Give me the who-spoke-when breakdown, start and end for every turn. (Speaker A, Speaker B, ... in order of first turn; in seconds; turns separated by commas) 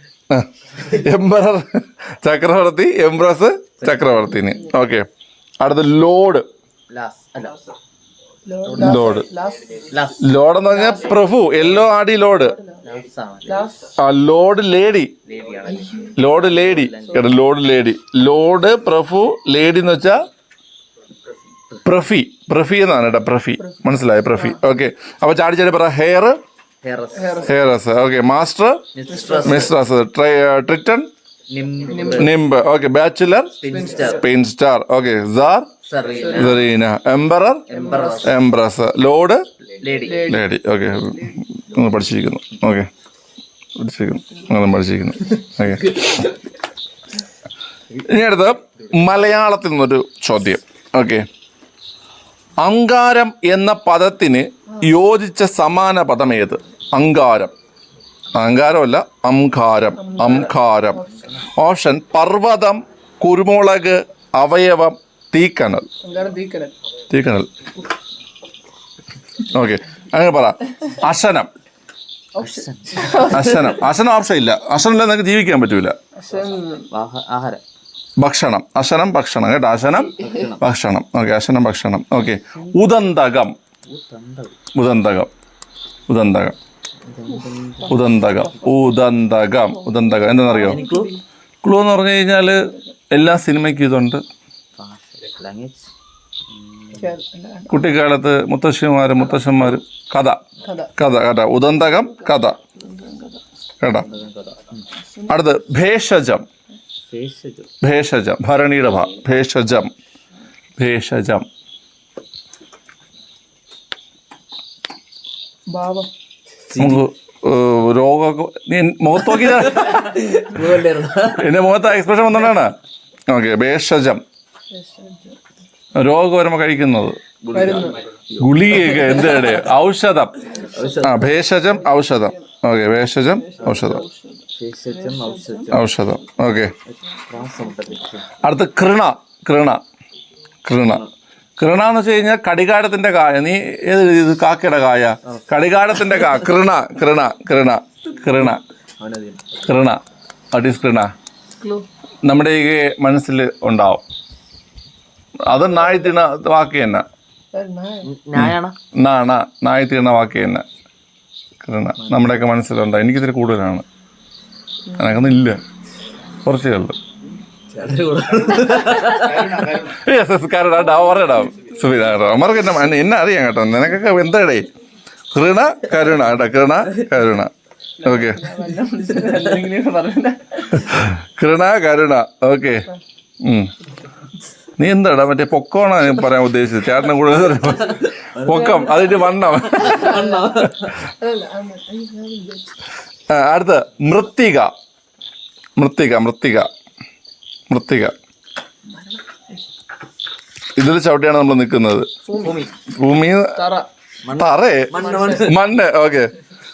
Speaker A: 0.3-5.1, Speaker B: 3.8-4.5, Speaker A: 5.6-6.5, Speaker B: 6.9-7.6, Speaker C: 8.4-10.0, Speaker B: 8.6-9.2, Speaker A: 8.8-9.3, Speaker B: 9.9-10.3, Speaker A: 10.2-12.6, Speaker C: 10.7-11.2, Speaker C: 12.4-12.8, Speaker B: 12.8-13.7, Speaker C: 13.4-14.0, Speaker A: 14.0-15.1, Speaker B: 15.2-17.4, Speaker C: 15.7-16.1, Speaker A: 16.1-20.2, Speaker C: 17.1-17.3, Speaker A: 21.8-26.4, Speaker C: 23.6-24.6, Speaker B: 26.8-27.5, Speaker C: 27.1-27.5, Speaker A: 27.4-28.9, Speaker B: 28.9-29.7, Speaker C: 29.1-29.6, Speaker A: 29.4-31.1, Speaker B: 31.5-32.3, Speaker C: 31.9-32.3, Speaker A: 32.1-35.7, Speaker B: 33.6-34.2, Speaker C: 33.7-34.2, Speaker B: 35.8-36.7, Speaker C: 36.3-36.5, Speaker A: 36.3-37.7, Speaker B: 37.7-38.4, Speaker C: 37.7-38.3, Speaker A: 38.2-39.4, Speaker B: 39.6-40.4, Speaker C: 40.0-40.5, Speaker A: 40.2-42.9, Speaker A: 43.8-46.2, Speaker A: 48.0-51.2, Speaker B: 48.8-49.0, Speaker A: 52.6-57.5, Speaker A: 58.3-65.9, Speaker C: 60.0-61.2, Speaker B: 61.1-61.4, Speaker C: 66.0-66.7, Speaker A: 67.1-67.5, Speaker A: 69.5-71.5, Speaker C: 72.3-73.6, Speaker B: 72.4-73.7, Speaker A: 73.2-76.0, Speaker C: 76.2-76.9, Speaker B: 76.9-77.6, Speaker A: 78.2-83.5, Speaker B: 80.2-80.6, Speaker B: 82.5-82.8, Speaker B: 83.8-84.6, Speaker A: 84.7-85.3, Speaker A: 86.1-86.5, Speaker B: 87.0-88.2, Speaker C: 87.5-88.9, Speaker A: 87.9-90.8, Speaker C: 89.7-91.2, Speaker B: 90.5-91.1, Speaker A: 91.6-94.2, Speaker B: 94.8-95.9, Speaker B: 96.5-97.2, Speaker C: 96.9-97.8, Speaker A: 97.7-100.4, Speaker C: 100.6-100.9, Speaker A: 101.0-102.6, Speaker C: 102.0-103.4, Speaker A: 103.8-104.1, Speaker B: 104.0-104.9, Speaker C: 105.0-105.4, Speaker A: 105.3-106.5, Speaker B: 107.1-107.7, Speaker A: 107.8-109.9, Speaker B: 108.8-109.2, Speaker A: 110.8-111.5, Speaker C: 115.7-116.1, Speaker B: 116.7-117.0, Speaker A: 116.8-120.4, Speaker B: 119.4-121.5, Speaker A: 121.3-122.8, Speaker A: 123.3-124.2, Speaker C: 124.7-125.4, Speaker A: 126.0-127.2, Speaker B: 127.4-129.7, Speaker C: 127.5-128.0, Speaker A: 128.4-134.0, Speaker B: 130.5-131.5, Speaker C: 133.4-135.7, Speaker B: 133.6-134.0, Speaker B: 134.5-136.0, Speaker A: 135.7-136.7, Speaker B: 136.8-138.3, Speaker A: 138.4-139.8, Speaker A: 140.7-141.1, Speaker A: 141.6-148.6, Speaker B: 149.0-149.7, Speaker A: 149.7-150.0, Speaker A: 150.5-151.1, Speaker C: 151.6-151.9, Speaker A: 152.2-154.0, Speaker A: 155.4-157.1, Speaker C: 157.5-158.1, Speaker B: 158.0-158.8, Speaker A: 158.4-160.6, Speaker A: 161.6-163.8, Speaker B: 162.0-162.3, Speaker C: 164.9-165.3, Speaker A: 164.9-165.6, Speaker A: 166.4-167.0, Speaker B: 167.7-169.9, Speaker A: 169.9-174.7, Speaker A: 175.3-177.5, Speaker C: 178.0-181.0, Speaker A: 178.0-178.5, Speaker A: 180.8-182.9, Speaker A: 183.4-183.7, Speaker A: 184.8-190.4, Speaker B: 188.2-188.9, Speaker C: 188.7-192.8, Speaker B: 189.5-190.9, Speaker A: 193.3-194.7, Speaker A: 195.8-196.7, Speaker A: 197.7-198.1, Speaker C: 198.9-199.6, Speaker A: 200.8-202.1, Speaker C: 202.2-202.6, Speaker B: 202.4-202.7, Speaker A: 202.9-203.6, Speaker C: 203.6-203.9, Speaker B: 204.2-205.6, Speaker A: 204.3-206.3, Speaker C: 205.0-205.4